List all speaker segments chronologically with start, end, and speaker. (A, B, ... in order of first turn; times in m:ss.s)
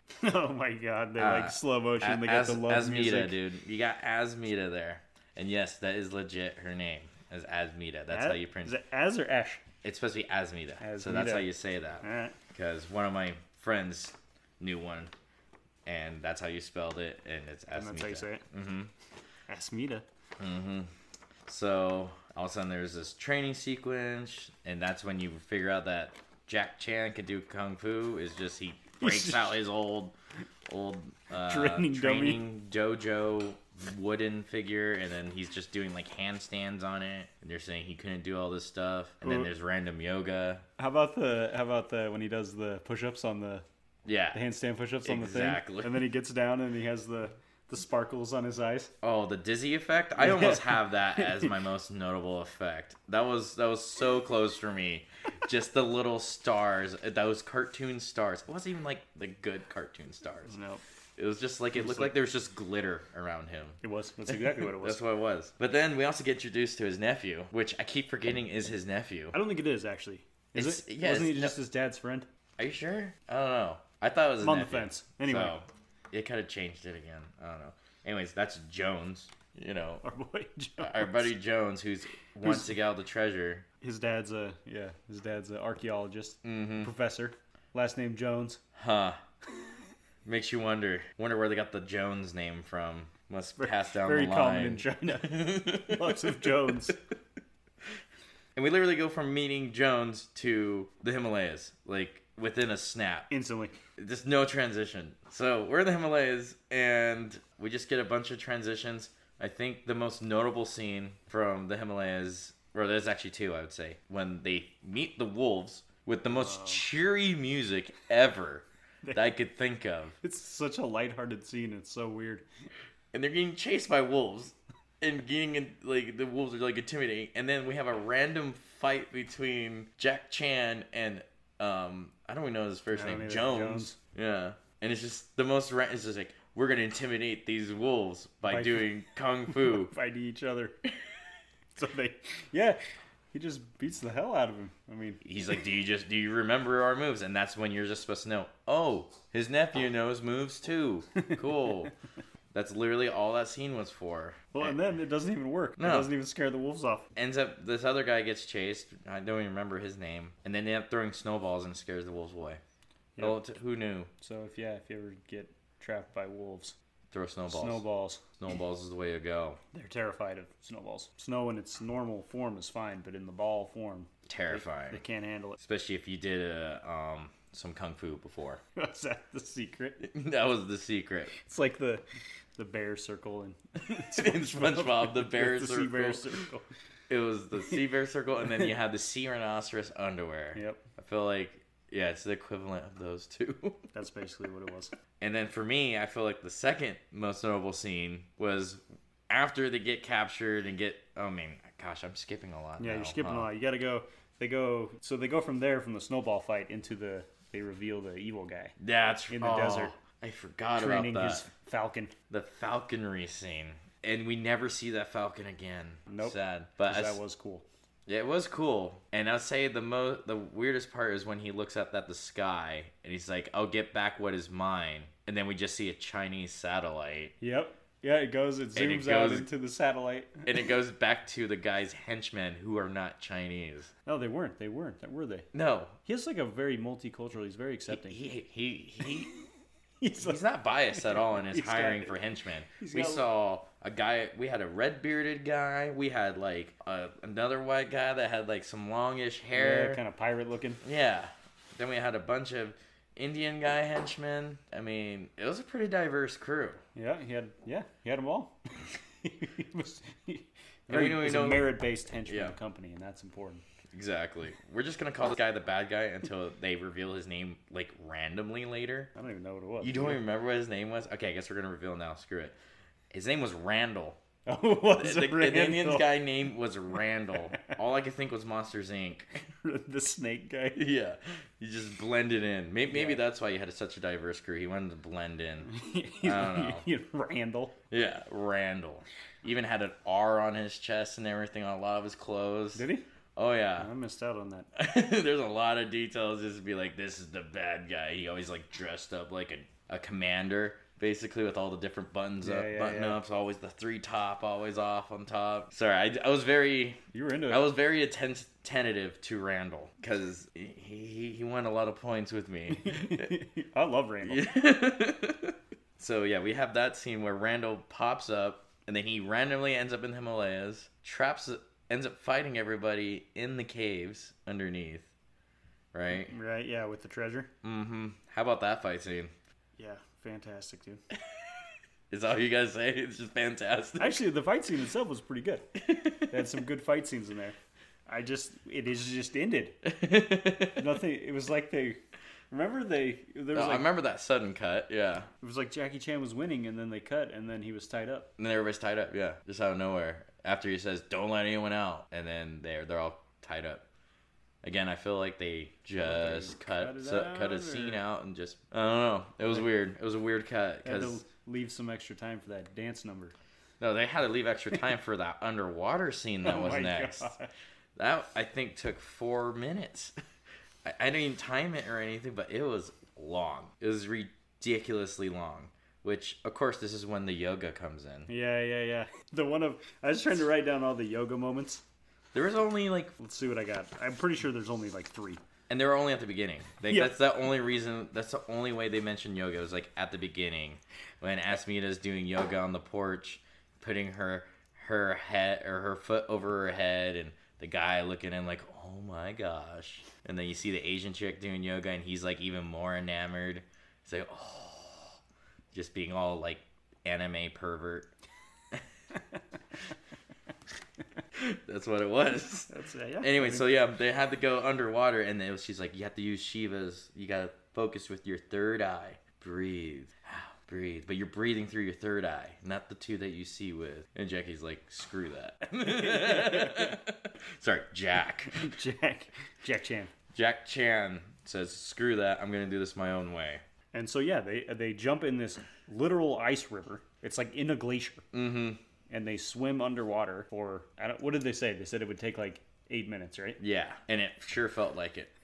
0:00.2-0:03.4 A
0:01.2-0:08.7 B
0:08.1-0:09.6 A
0:09.8-0:15.1 B
0:10.8-0:11.5 A
0:12.0-0:12.4 A
0:15.8-0:18.9 B
0:17.7-0:18.4 A
0:19.5-0:20.0 A
0:20.4-0:20.9 B
0:21.5-0:30.2 B
0:29.0-0:29.6 A
0:30.7-0:40.6 B
0:31.4-0:32.4 A
0:39.2-0:39.5 A
0:40.8-0:43.6 A
0:44.1-0:44.4 B
0:44.3-0:48.9 A
0:45.0-0:46.0 B
0:49.0-1:00.5 B
0:50.2-0:51.5 A
1:00.5-1:00.8 A
1:01.2-1:09.4 B
1:01.8-1:02.1 A
1:03.8-1:05.0 A
1:09.3-1:12.3 A
1:10.5-1:11.6 B
1:12.6-1:20.0 B
1:14.4-1:15.6 A
1:20.0-1:21.3 A
1:20.8-1:23.7 B
1:22.4-1:22.7 A
1:23.8-1:28.6 A
1:26.4-1:26.9 B
1:28.8-1:29.2 B
1:30.2-1:36.7 B
1:33.6-1:37.0 A
1:38.6-1:43.3 B
1:43.3-1:43.8 A
1:44.0-2:00.2 B
1:56.3-1:56.8 A
1:59.0-1:59.3 A
2:00.2-2:02.5 A
2:03.1-2:19.9 B
2:12.9-2:14.0 A
2:18.5-2:18.9 A
2:19.5-2:20.8 A
2:21.8-2:22.8 A
2:23.3-2:25.2 A
2:25.2-2:31.9 B
2:31.2-2:31.9 A
2:32.5-2:34.8 B
2:34.5-2:37.1 A
2:35.8-2:36.1 B
2:37.2-2:42.6 B
2:43.2-2:44.1 B
2:44.2-2:46.8 A
2:47.1-2:47.8 B
2:47.5-2:48.2 A
2:48.4-2:49.6 B
2:49.7-2:55.6 A
2:54.3-2:55.0 B
2:55.6-2:58.6 B
2:58.8-3:00.0 A
3:00.0-3:01.3 B
3:01.3-3:02.0 A
3:02.6-3:06.6 A
3:03.9-3:06.3 B
3:07.1-3:13.8 B
3:10.6-3:10.8 A
3:13.9-3:14.9 A
3:15.2-3:23.5 B
3:22.8-3:28.8 A
3:28.8-3:31.5 B
3:29.3-3:30.0 A
3:30.8-3:32.1 A
3:32.3-3:37.2 B
3:36.1-3:37.7 A
3:38.1-3:47.4 B
3:47.4-3:50.5 A
3:48.8-3:49.5 B
3:50.5-3:53.9 B
3:54.1-3:55.5 A
3:55.5-3:56.0 B
3:56.0-3:58.2 A
3:57.9-3:59.3 B
4:00.0-4:00.4 A
4:00.2-4:10.0 B
4:00.9-4:02.2 A
4:02.8-4:03.3 A
4:09.6-4:10.8 A
4:10.8-4:16.8 B
4:17.0-4:23.6 A
4:20.9-4:22.6 B
4:23.9-4:29.1 B
4:29.2-4:30.2 A
4:29.8-4:32.6 B
4:33.1-4:34.2 B
4:34.5-4:36.1 A
4:35.0-4:39.4 B
4:39.6-4:40.8 A
4:40.8-4:45.7 B
4:42.9-4:43.2 A
4:45.6-4:47.8 A
4:46.2-4:46.8 B
4:47.9-4:53.9 B
4:52.8-4:53.0 A
4:53.8-4:54.7 A
4:54.8-5:13.3 B
5:02.4-5:03.2 A
5:07.1-5:07.6 A
5:12.7-5:14.4 A
5:14.2-5:25.1 B
5:25.9-5:26.3 B
5:26.1-5:27.5 A
5:27.6-5:29.3 B
5:29.8-5:31.0 A
5:31.2-5:34.2 B
5:34.0-5:35.7 A
5:35.8-5:36.4 B
5:36.3-5:39.8 A
5:39.8-5:41.0 B
5:40.8-5:42.0 A
5:42.5-5:43.9 A
5:43.5-5:45.3 B
5:45.4-5:48.3 A
5:48.4-5:53.8 B
5:54.6-6:01.2 B
5:56.0-5:58.0 A
6:00.8-6:03.4 A
6:03.8-6:07.3 B
6:06.4-6:07.5 A
6:08.0-6:10.1 B
6:10.8-6:18.3 B
6:18.3-6:21.8 A
6:22.3-6:23.2 B
6:23.2-6:25.4 A
6:25.7-6:45.2 B
6:45.7-6:48.1 B
6:51.4-7:08.8 B
6:52.7-6:53.6 A
7:05.8-7:07.0 A
7:08.5-7:10.1 A
7:10.3-7:13.6 B
7:13.9-7:18.2 A
7:18.3-7:18.8 B
7:19.1-7:23.6 A
7:23.6-7:25.3 B